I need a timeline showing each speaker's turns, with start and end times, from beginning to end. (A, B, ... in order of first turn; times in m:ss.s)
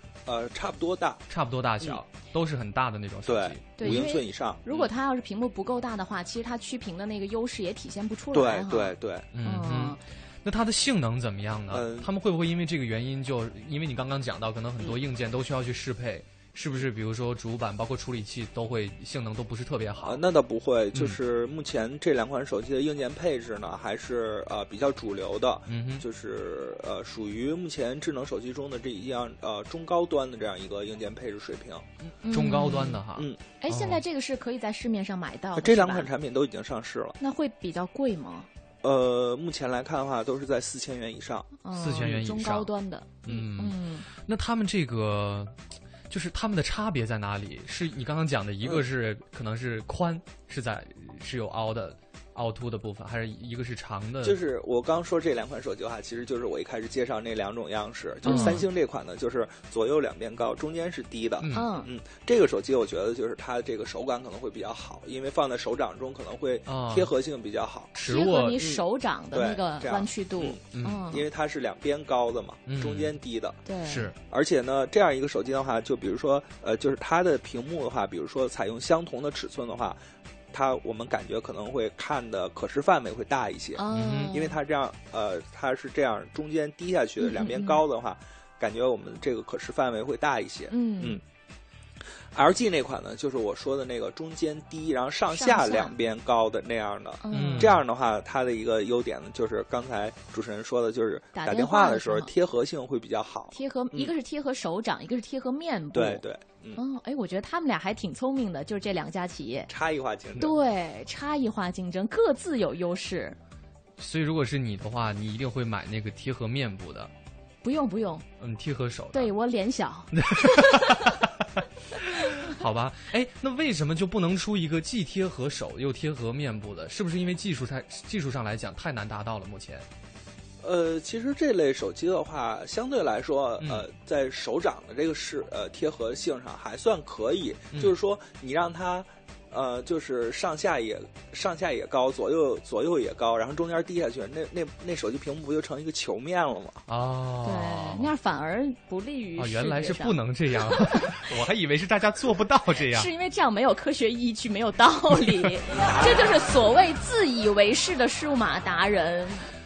0:00.3-0:01.3 A
0:01.3-0:04.1 B
0:03.3-0:04.8 A
0:03.8-0:10.0 C
0:08.3-0:09.3 A
0:09.3-0:20.2 B
0:11.7-0:12.1 A
0:20.0-0:31.9 A
0:25.7-0:26.0 B
0:32.2-0:33.0 C
0:32.3-0:34.0 B
0:33.6-0:36.1 C
0:35.6-0:37.2 A
0:37.2-0:38.5 C
0:38.8-0:41.5 A
0:41.6-0:44.1 C
0:41.7-0:42.7 B
0:43.2-0:45.5 B
0:46.1-0:54.4 B
0:54.2-1:07.9 A
0:58.2-0:58.6 C
0:58.3-0:58.6 B
1:01.4-1:01.7 B
1:01.5-1:01.9 C
1:06.7-1:07.1 B
1:08.0-1:08.7 B
1:08.0-1:11.2 C
1:08.6-1:13.6 A
1:10.7-1:11.1 B
1:12.7-1:13.1 B
1:13.7-1:14.1 C
1:13.9-1:14.2 B
1:14.3-1:20.0 A
1:20.5-1:31.2 A
1:23.8-1:24.6 C
1:23.9-1:24.4 B
1:27.2-1:27.8 C
1:30.7-1:31.2 C
1:32.3-1:44.1 A
1:35.3-1:35.9 C
1:37.2-1:37.7 C
1:37.3-1:37.8 B
1:41.3-1:42.3 C
1:43.5-1:46.2 C
1:45.9-1:46.8 A
1:46.8-1:49.7 C
1:49.7-1:50.6 A
1:50.4-1:53.4 C
1:54.0-1:57.1 B
1:57.6-1:58.2 C
1:58.4-1:59.3 B
1:59.1-2:01.1 C
2:00.1-2:01.2 B
2:02.0-2:09.8 B
2:10.6-2:26.8 A
2:13.6-2:13.8 B
2:26.9-2:28.1 B
2:27.4-2:30.2 C
2:29.4-2:33.1 B
2:30.7-2:31.1 C
2:32.9-2:39.5 C